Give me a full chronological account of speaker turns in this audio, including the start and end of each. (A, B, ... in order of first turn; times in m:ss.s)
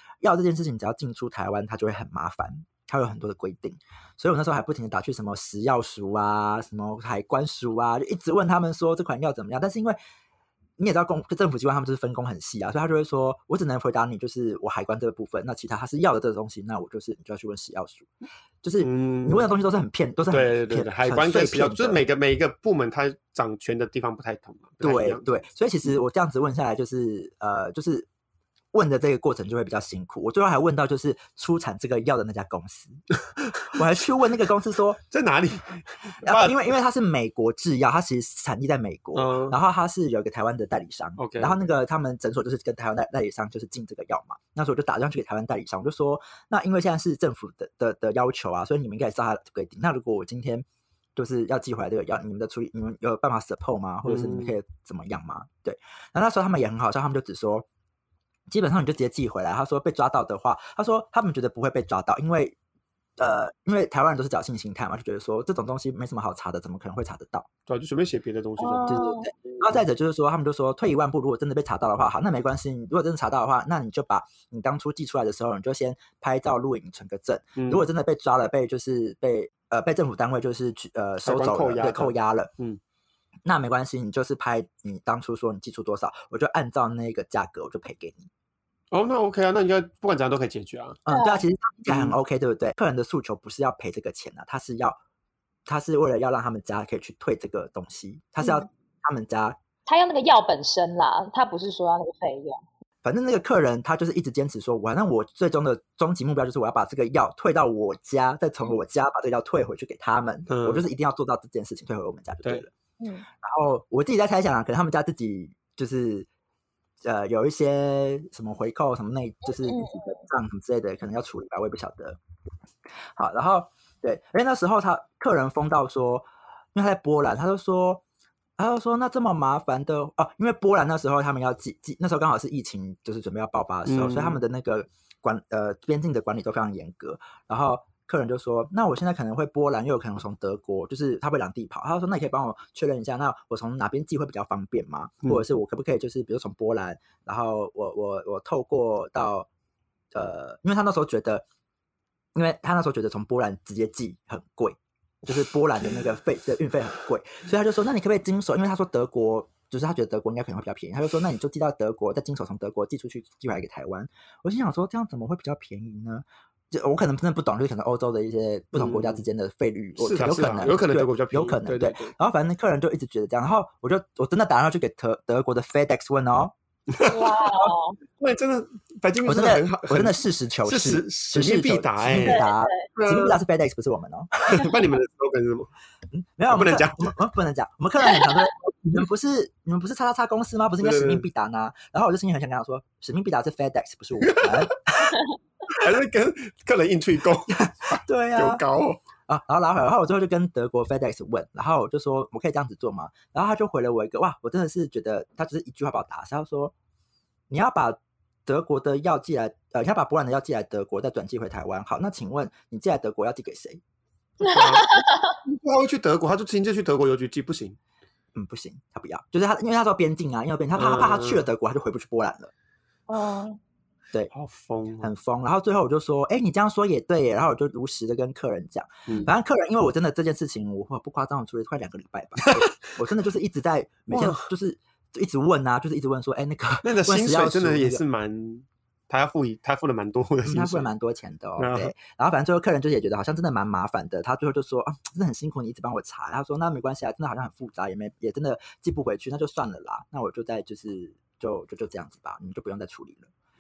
0:00.2-0:10.0 A
0:10.8-0:18.1 A
0:18.6-0:22.0 A
0:18.8-0:19.5 B
0:20.3-0:25.4 B
0:24.8-0:28.1 A
0:28.7-0:33.0 A
0:33.7-0:35.0 A
0:35.1-0:36.6 B
0:36.2-0:57.7 A
0:39.2-0:39.6 B
0:41.2-0:41.6 B
0:54.0-0:54.5 B
0:58.5-1:02.6 A
1:03.2-1:07.5 A
1:07.7-1:09.6 B
1:08.6-1:09.3 C
1:08.9-1:22.5 A
1:17.6-1:17.9 B
1:21.2-1:22.8 B
1:23.4-1:28.3 A
1:28.9-1:31.0 B
1:31.1-1:35.0 A
1:31.1-1:31.4 C
1:31.9-1:32.2 B
1:35.7-1:39.6 A
1:38.4-1:38.7 C
1:39.9-1:42.6 C
1:43.0-1:52.7 A
1:50.5-1:50.8 B
1:53.0-1:53.3 C
1:53.4-1:56.3 A
1:57.0-2:02.2 A
1:59.4-2:00.2 C
2:03.2-2:08.0 A
2:08.6-2:29.5 A
2:13.9-2:14.4 B
2:30.1-2:31.4 A
2:32.4-2:56.5 A
2:48.7-2:49.2 B
2:50.0-2:52.1 B
2:56.9-3:03.4 B
2:57.0-2:58.0 C
2:59.2-3:04.8 A
3:02.2-3:02.9 C
3:04.5-3:05.7 B
3:06.1-3:15.2 A
3:06.5-3:07.2 B
3:10.8-3:11.2 B
3:14.2-3:14.7 B
3:15.7-3:19.0 B
3:17.6-3:18.6 A
3:19.3-3:26.7 A
3:27.5-3:33.8 A
3:34.4-3:35.4 C
3:34.4-3:37.8 B
3:38.4-3:42.5 A
3:40.8-3:41.4 B
3:43.1-3:43.6 C
3:44.3-3:45.1 B
3:45.0-3:58.0 A
3:52.5-3:52.7 B
3:54.1-3:54.5 B
3:56.8-4:00.9 B
4:00.4-4:13.3 A
4:01.6-4:01.9 B